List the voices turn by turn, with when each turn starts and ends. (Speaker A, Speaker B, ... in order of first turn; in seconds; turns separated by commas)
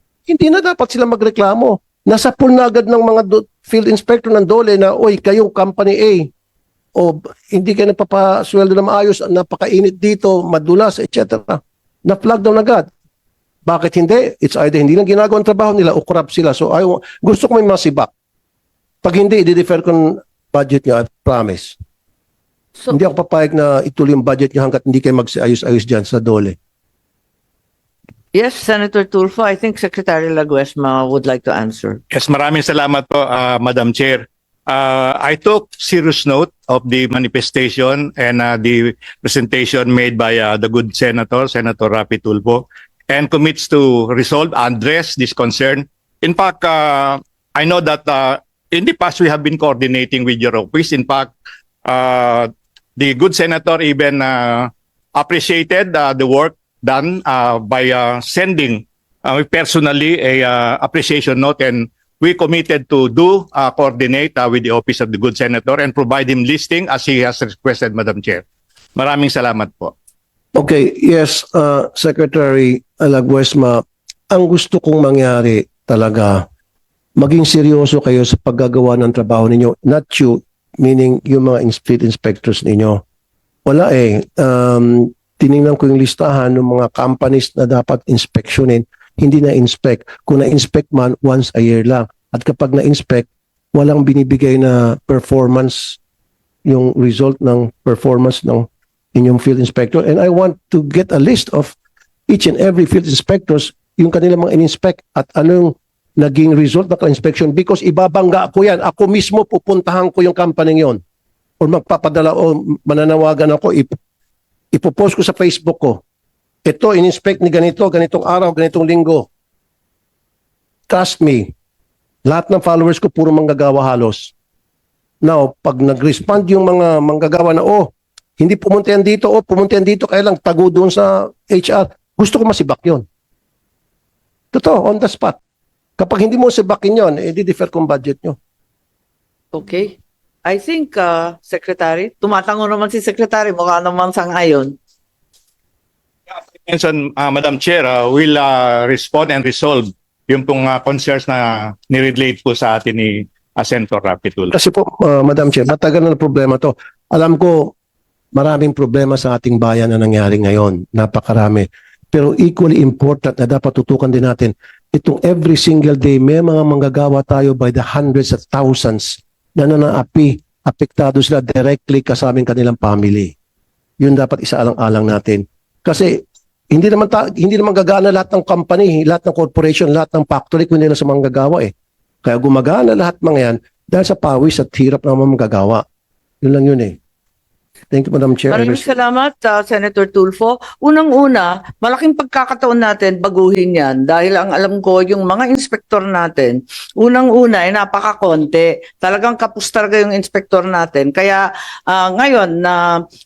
Speaker A: 0.3-6.3, Speaker A: 7.0-12.9, Speaker A: 13.7-18.1, Speaker A: 19.0-21.8, Speaker A: 22.9-26.6, Speaker B: 28.3-32.0, Speaker C: 32.1-51.3, Speaker C: 51.9-68.4, Speaker C: 69.0-69.9, Speaker A: 70.5-76.5, Speaker A: 77.2-83.0, Speaker A: 83.7-96.0, Speaker A: 96.7-101.8, Speaker A: 102.3-111.0, Speaker A: 111.6-114.0, Speaker A: 114.7-116.0, Speaker A: 116.7-119.3, Speaker A: 120.9-121.5, Speaker A: 122.3-124.3, Speaker A: 125.2-133.1, Speaker A: 134.5-135.4, Speaker A: 136.0-138.4, Speaker B: 139.5-144.7, Speaker C: 146.3-154.5, Speaker A: 154.5-157.7, Speaker A: 158.3-173.3, Speaker A: 174.0-181.7, Speaker A: 182.2-185.8, Speaker A: 186.4-187.0, Speaker A: 187.9-188.9, Speaker B: 188.5-202.8